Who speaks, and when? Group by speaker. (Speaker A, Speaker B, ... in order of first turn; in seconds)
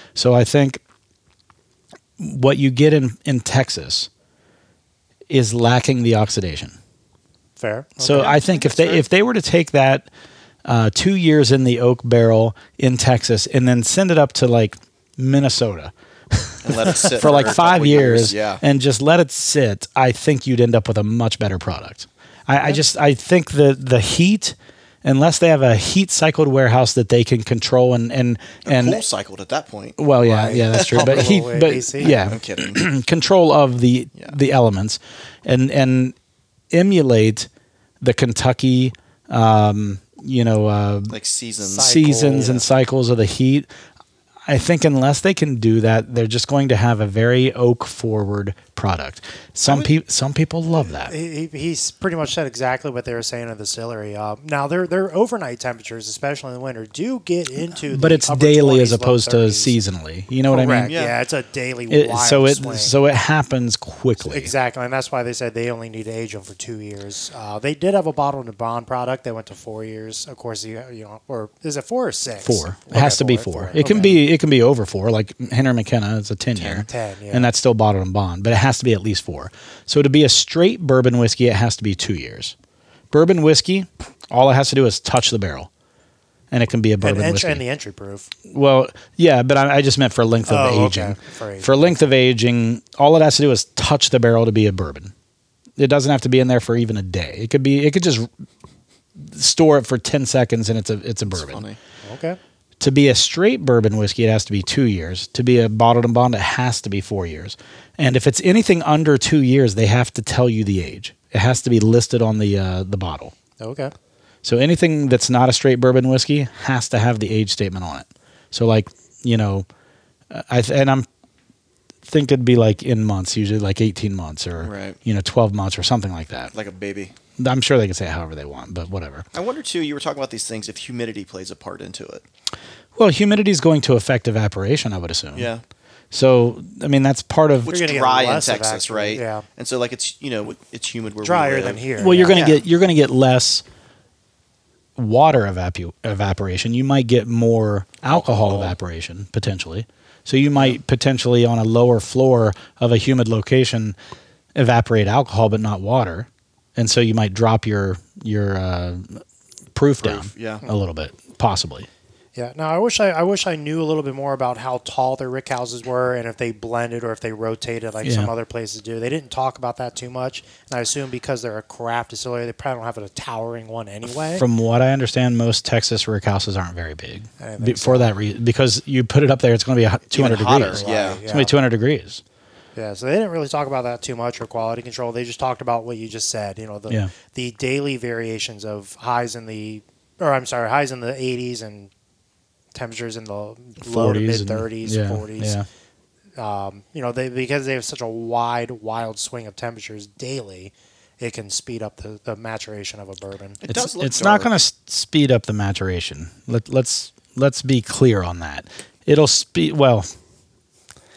Speaker A: 0.1-0.8, 2.2-4.1, 5.3-6.8, 8.0-10.1, 10.7-29.0, 30.0-36.1, 36.7-37.5, 38.0-41.2, 41.8-43.7, 44.5-51.1, 57.9-60.9, 61.9-64.5, 72.4-82.5, 83.1-85.7, 86.5-87.6, 88.5-95.1, 95.8-98.3, 99.2-101.6, 102.8-113.3, 114.4-119.7, 120.3-121.1, 122.1-126.5, 127.4-129.3, 133.0-135.5, 136.1-137.7, 142.0-143.6, 145.0-154.0, 154.6-161.9, 168.0-168.3, 174.1-182.2, 193.8-195.7, 203.7-210.1
Speaker B: 7.6-8.3, 30.2-32.2, 41.6-42.7, 51.0-59.8, 60.5-63.0, 64.2-74.2, 76.7-77.5, 87.0-88.3, 90.5-92.1, 102.0-102.4, 113.6-113.9, 137.7-139.4, 141.2-142.4, 162.4-174.5, 177.4-178.1, 180.7-181.6, 182.8-191.9, 192.7-195.6, 196.4-203.6
Speaker C: 8.1-9.1, 16.6-18.6, 28.6-30.0, 30.5-31.3, 32.0-32.9, 41.1-41.9, 49.7-49.9, 60.9-61.2, 101.3-101.8, 124.6-125.0, 126.5-127.1, 129.3-132.2, 135.3-135.6, 137.6-142.6, 148.1-148.7, 160.0-160.6, 180.1-181.2, 203.6-204.5